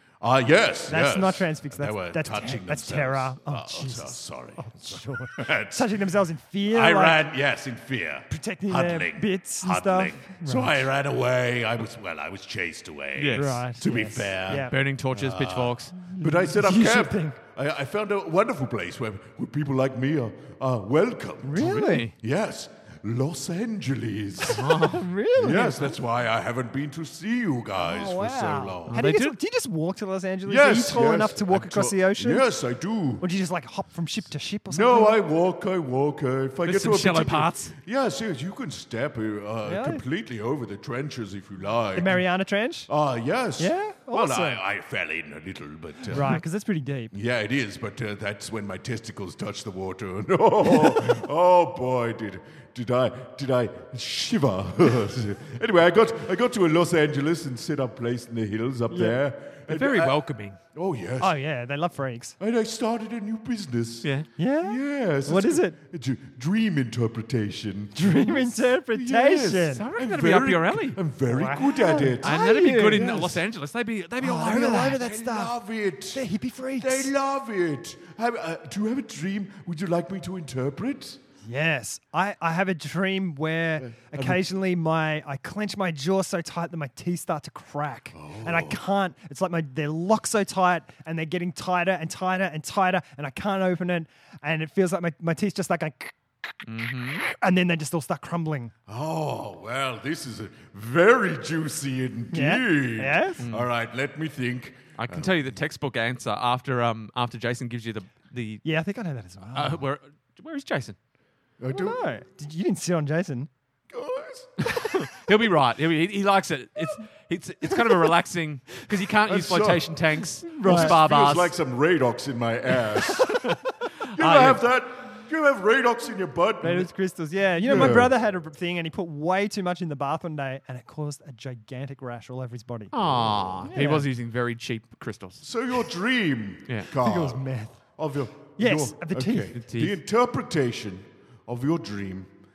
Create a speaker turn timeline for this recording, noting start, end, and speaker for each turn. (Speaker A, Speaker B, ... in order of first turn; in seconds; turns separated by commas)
Speaker A: 0.2-5.9, Speaker B: 0.9-7.2, Speaker A: 6.7-24.8, Speaker B: 8.3-10.9, Speaker C: 13.2-13.7, Speaker B: 13.3-14.8, Speaker C: 14.5-15.9, Speaker B: 16.0-17.4, Speaker B: 21.4-22.1, Speaker C: 21.6-22.1, Speaker B: 24.4-25.9, Speaker C: 24.5-25.0, Speaker A: 25.4-29.0, Speaker B: 27.8-32.5, Speaker C: 28.9-29.3, Speaker A: 30.4-33.2, Speaker B: 33.2-35.2, Speaker A: 34.7-42.2, Speaker C: 36.6-37.8, Speaker B: 39.6-40.0, Speaker B: 41.9-42.9, Speaker A: 42.9-46.4, Speaker B: 43.6-44.6, Speaker B: 46.1-47.1, Speaker A: 47.1-60.2, Speaker B: 50.7-51.2, Speaker B: 58.9-59.2, Speaker C: 59.7-60.6, Speaker A: 60.7-61.3, Speaker B: 61.2-62.4, Speaker A: 62.4-73.3, Speaker C: 64.0-64.3, Speaker B: 64.4-65.8, Speaker B: 67.9-69.9, Speaker C: 69.7-71.0, Speaker B: 71.3-73.4, Speaker C: 72.2-75.0, Speaker B: 74.2-75.5, Speaker A: 75.0-76.2, Speaker B: 76.1-77.1, Speaker A: 76.8-81.2, Speaker B: 81.4-96.6, Speaker A: 83.8-84.4, Speaker A: 88.1-88.8, Speaker C: 96.6-97.3, Speaker B: 97.2-98.7, Speaker A: 98.9-105.5, Speaker B: 102.3-103.4, Speaker C: 103.4-103.7, Speaker C: 105.0-108.6, Speaker B: 108.6-109.8, Speaker C: 109.5-111.0, Speaker A: 111.6-112.0, Speaker B: 111.7-113.5, Speaker A: 113.9-114.5, Speaker C: 114.6-121.5, Speaker B: 117.7-118.1, Speaker A: 119.2-119.9, Speaker B: 120.5-121.0, Speaker A: 120.6-123.4, Speaker C: 123.2-123.6, Speaker A: 124.1-126.9, Speaker C: 124.2-124.6, Speaker B: 126.6-132.9, Speaker A: 127.6-128.1, Speaker C: 132.9-135.4, Speaker A: 133.0-133.7, Speaker B: 133.6-134.1, Speaker A: 135.4-142.3, Speaker B: 136.9-137.8, Speaker B: 138.6-139.5, Speaker C: 139.5-140.0